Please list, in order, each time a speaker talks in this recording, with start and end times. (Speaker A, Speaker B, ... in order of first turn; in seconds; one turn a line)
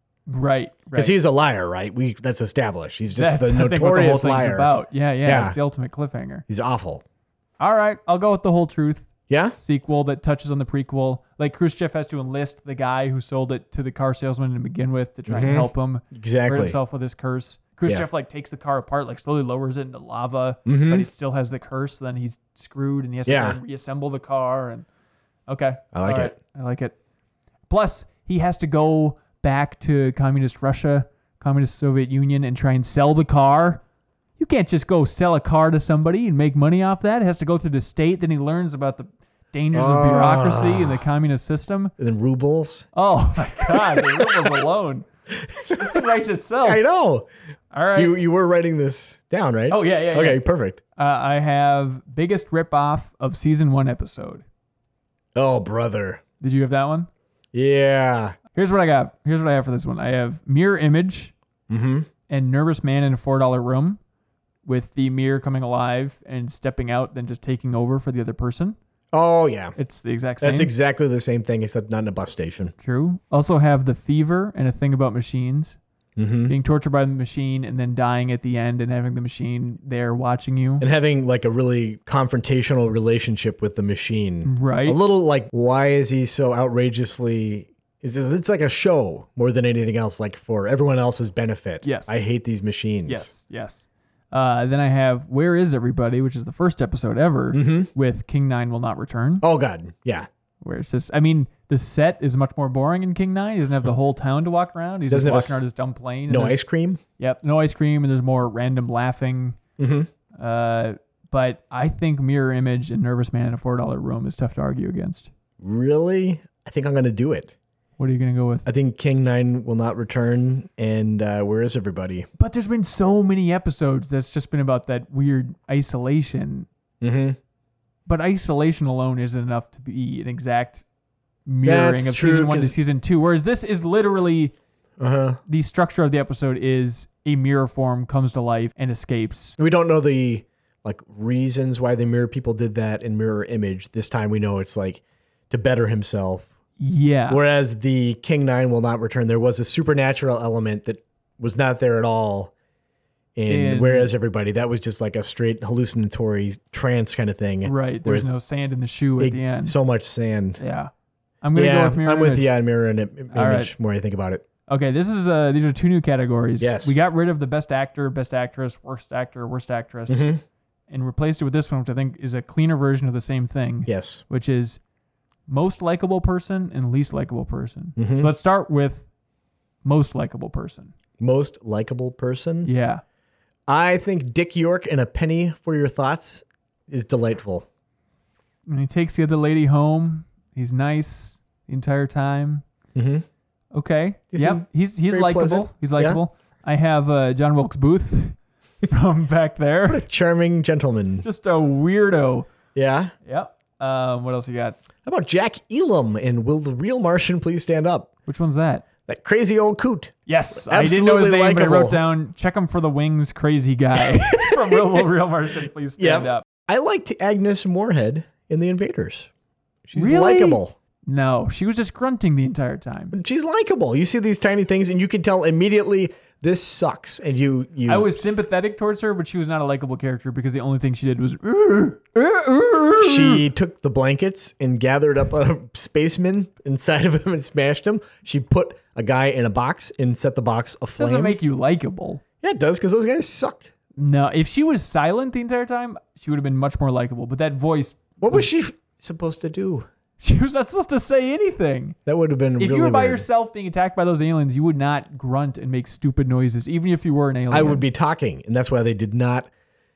Speaker A: 0.3-1.1
Speaker B: 0.9-4.7
Speaker A: 3.1-6.4
Speaker B: 5.2-5.6
Speaker B: 6.5-7.0
Speaker A: 7.6-24.9
Speaker B: 9.3-9.6
Speaker B: 15.3-16.8
Speaker B: 20.7-21.1
Speaker B: 23.3-23.6
Speaker A: 25.5-27.0
Speaker B: 25.9-26.3
Speaker A: 27.7-33.8
Speaker A: 34.4-41.9
Speaker B: 39.7-41.0
Speaker B: 42.0-42.9
Speaker A: 43.0-45.1
Speaker B: 43.6-44.7
Speaker B: 45.3-46.1
Speaker A: 45.8-46.8
Speaker B: 46.6-47.3
Speaker A: 47.7-48.2
Speaker B: 48.0-50.8
Speaker A: 49.7-50.4
Speaker A: 51.0-54.4
Speaker B: 55.4-56.2
Speaker A: 56.4-57.1
Speaker B: 57.5-58.4
Speaker A: 58.5-61.3
Speaker B: 61.7-62.1
Speaker A: 62.3-64.0
Speaker A: 64.7-68.8
Speaker B: 69.1-69.8
Speaker A: 69.8-70.7
Speaker B: 70.4-72.7
Speaker A: 72.8-75.8
Speaker B: 76.2-76.5
Speaker A: 76.5-80.9
Speaker B: 80.8-93.3
Speaker A: 84.4-85.0
Speaker A: 91.8-92.2
Speaker A: 93.1-99.5
Speaker B: 97.5-97.9
Speaker B: 99.4-100.3
Speaker A: 100.6-106.6
Speaker B: 105.1-105.6
Speaker B: 106.3-107.0
Speaker A: 107.2-109.6
Speaker B: 109.8-110.1
Speaker A: 110.4-115.3
Speaker B: 115.6-117.5
Speaker A: 118.0-118.7
Speaker B: 118.7-122.3
Speaker A: 122.4-126.7
Speaker B: 127.0-127.4
Speaker A: 128.1-130.8
Speaker A: 131.5-134.5
Speaker B: 131.6-132.8
Speaker B: 135.0-135.4
Speaker A: 135.5-139.6
Speaker B: 139.6-146.5
Speaker A: 146.8-147.4
Speaker B: 147.3-152.5
Speaker B: 153.4-158.3
Speaker A: 153.5-154.1
Speaker A: 157.6-159.8
Speaker B: 159.2-160.6
Speaker A: 160.6-160.9
Speaker A: 161.4-162.5
Speaker B: 161.6-164.4
Speaker A: 163.3-163.7
Speaker A: 164.7-170.3
Speaker B: 166.6-167.0
Speaker B: 170.1-170.4
Speaker A: 170.9-174.8
Speaker B: 173.9-174.2
Speaker A: 175.5-179.1
Speaker B: 178.0-178.3
Speaker A: 179.8-180.9
Speaker B: 181.2-182.7
Speaker A: 182.6-183.0
Speaker B: 183.7-187.7
Speaker A: 188.7-192.6
Speaker B: 192.9-193.2
Speaker A: 193.7-200.1
Speaker B: 194.3-196.2
Speaker B: 199.9-201.2
Speaker A: 201.2-202.5
Speaker B: 202.8-203.1
Speaker A: 203.3-204.8
Speaker B: 205.1-208.1
Speaker A: 208.3-208.8
Speaker B: 209.1-212.0
Speaker A: 210.3-216.4
Speaker B: 214.2-215.0
Speaker B: 216.0-219.3
Speaker B: 219.9-220.8
Speaker A: 219.9-223.2
Speaker B: 223.1-228.3
Speaker A: 227.9-233.4
Speaker B: 233.0-241.4
Speaker A: 241.0-242.2
Speaker B: 242.4-243.7
Speaker A: 244.0-248.5
Speaker B: 248.2-249.9
Speaker A: 250.2-252.0
Speaker B: 252.1-253.2
Speaker A: 252.6-257.9
Speaker B: 257.5-259.5